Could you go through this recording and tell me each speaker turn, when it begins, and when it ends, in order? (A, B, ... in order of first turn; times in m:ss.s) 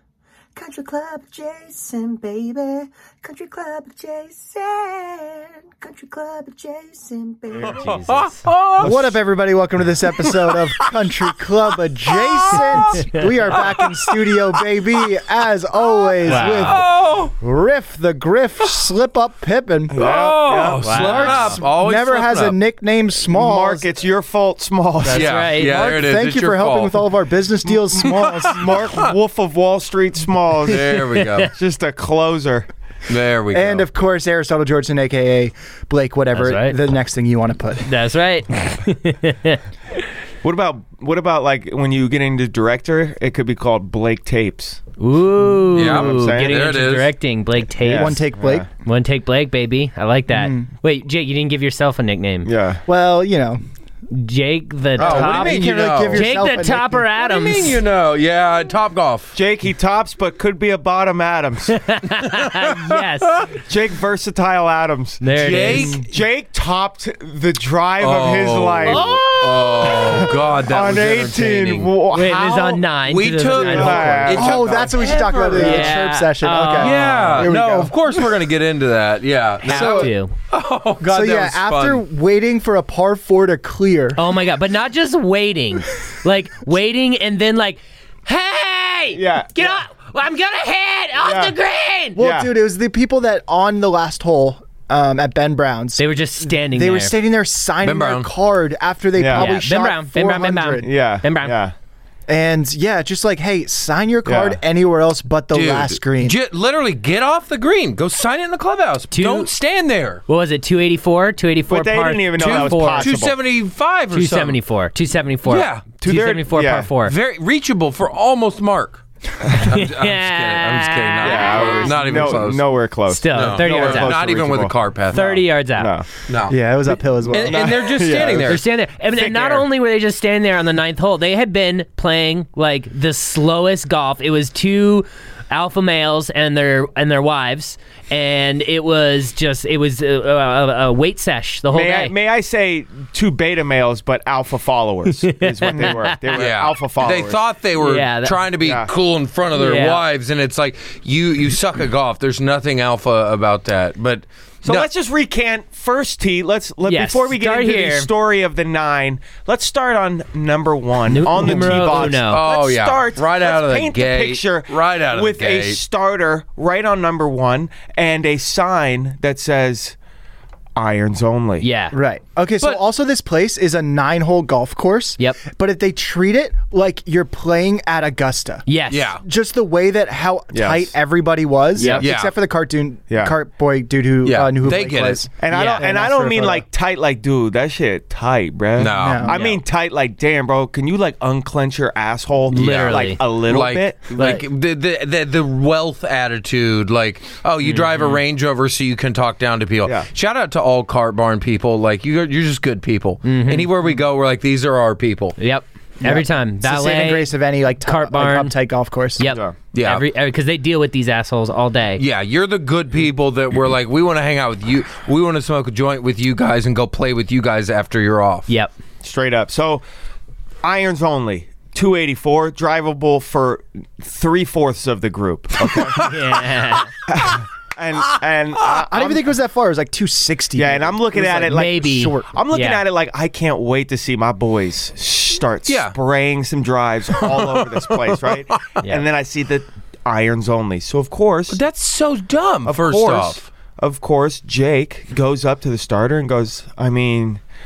0:00.5-0:08.2 A
0:07.7-0:08.4 B
0:07.7-0:09.1 C
0:08.8-0:09.2 D
0:08.8-0:20.0 E
0:10.2-0:11.0 C
0:12.1-0:14.2 C
0:15.9-0:17.3 C
0:16.2-0:16.8 B
0:19.9-0:21.6 D
0:19.9-0:22.6 C
0:20.8-0:21.5 B
0:20.9-0:23.8 E
0:23.3-0:25.3 D
0:25.0-0:27.1 C
0:25.1-0:25.8 B
0:25.6-0:28.7 E
0:27.6-0:32.7 D
0:28.0-0:29.1 C
0:30.6-0:31.5 C
0:31.1-0:31.5 B
0:33.1-0:33.8 C
0:33.5-0:37.9 E
0:36.3-0:36.8 B
0:37.8-0:39.6 B
0:40.4-0:44.8 D
0:45.0-0:48.2 B
0:45.7-0:47.1 C
0:45.7-0:46.6 D
0:47.8-0:48.7 D
0:47.9-0:48.7 E
0:48.8-0:52.5 B
0:50.3-0:50.7 E
0:52.4-0:52.8 D
0:52.9-0:53.6 E
0:54.1-0:57.8 B
0:55.0-0:57.1 E
0:55.0-0:56.3 C
0:57.2-0:59.4 C
0:59.3-1:01.8 D
1:01.7-1:03.4 B
1:02.3-1:03.5 C
1:03.6-1:05.2 D
1:05.2-1:06.0 B
1:05.4-1:06.0 C
1:05.7-1:06.0 E
1:06.1-1:09.1 D
1:08.0-1:11.9 C
1:08.8-1:10.0 B
1:09.8-1:12.8 D
1:12.1-1:14.2 B
1:13.1-1:16.0 C
1:13.5-1:15.2 D
1:13.8-1:18.2 E
1:15.5-1:17.5 B
1:16.6-1:22.0 C
1:19.6-1:20.1 E
1:19.6-1:20.3 B
1:21.0-1:24.2 E
1:24.2-1:32.2 B
1:29.1-1:29.8 D
1:31.2-1:31.5 D
1:32.2-1:40.9 E
1:32.2-1:32.5 D
1:36.0-1:37.1 B
1:37.8-1:38.3 C
1:39.2-1:39.5 D
1:39.3-1:41.6 B
1:40.8-1:41.7 D
1:42.3-1:46.4 E
1:44.2-1:44.6 D
1:45.5-1:50.2 C
1:49.1-1:49.5 B
1:50.3-1:53.1 B
1:51.7-1:53.4 D
1:52.4-1:54.6 C
1:54.1-1:57.1 B
1:55.4-1:56.0 C
1:56.0-1:56.9 D
1:57.0-2:02.7 C
1:59.5-2:02.4 B
2:01.2-2:06.1 D
2:03.1-2:04.2 B
2:03.3-2:05.4 C
2:05.1-2:05.9 B
2:06.3-2:06.6 C
2:06.5-2:07.8 E
2:07.3-2:08.6 C
2:07.4-2:09.7 D
2:08.4-2:22.1 B
2:21.7-2:27.4 D
2:25.2-2:26.2 B
2:25.7-2:26.0 E
2:26.3-2:34.9 C
2:27.8-2:28.4 B
2:28.6-2:28.9 D
2:29.5-2:30.0 B
2:34.6-2:50.0 D
2:36.8-2:38.1 B
2:41.1-2:42.4 B
2:41.4-2:45.8 C
2:50.7-2:51.7 D
2:51.6-2:52.0 B
2:51.9-2:58.6 E
2:58.6-2:59.2 B
2:58.9-2:59.2 C
2:59.2-3:06.6 E
3:00.5-3:00.9 D
3:01.8-3:02.0 B
3:02.0-3:02.3 C
3:03.1-3:03.3 D
3:04.2-3:05.2 C
3:05.4-3:14.4 D
3:05.5-3:05.9 B
3:08.8-3:09.4 C
3:08.9-3:09.4 E
3:09.3-3:09.6 B
3:12.5-3:13.2 B
3:12.5-3:25.4 C
3:17.6-3:18.2 B
3:23.2-3:23.7 B
3:25.4-3:27.3 B
3:26.0-3:29.2 E
3:27.8-3:28.5 B
3:29.2-3:32.0 B
3:29.2-3:29.5 D
3:29.7-3:30.0 C
3:32.0-3:38.5 C
3:39.0-3:39.8 D
3:40.6-3:46.2 D
3:45.6-3:46.2 C
3:46.0-3:46.9 B
3:47.1-3:49.2 D
3:48.6-3:52.3 E
3:50.6-4:01.6 D
3:51.5-3:52.8 B
3:55.6-3:56.0 C
3:57.2-3:58.6 C
4:01.5-4:03.4 C
4:02.6-4:07.4 D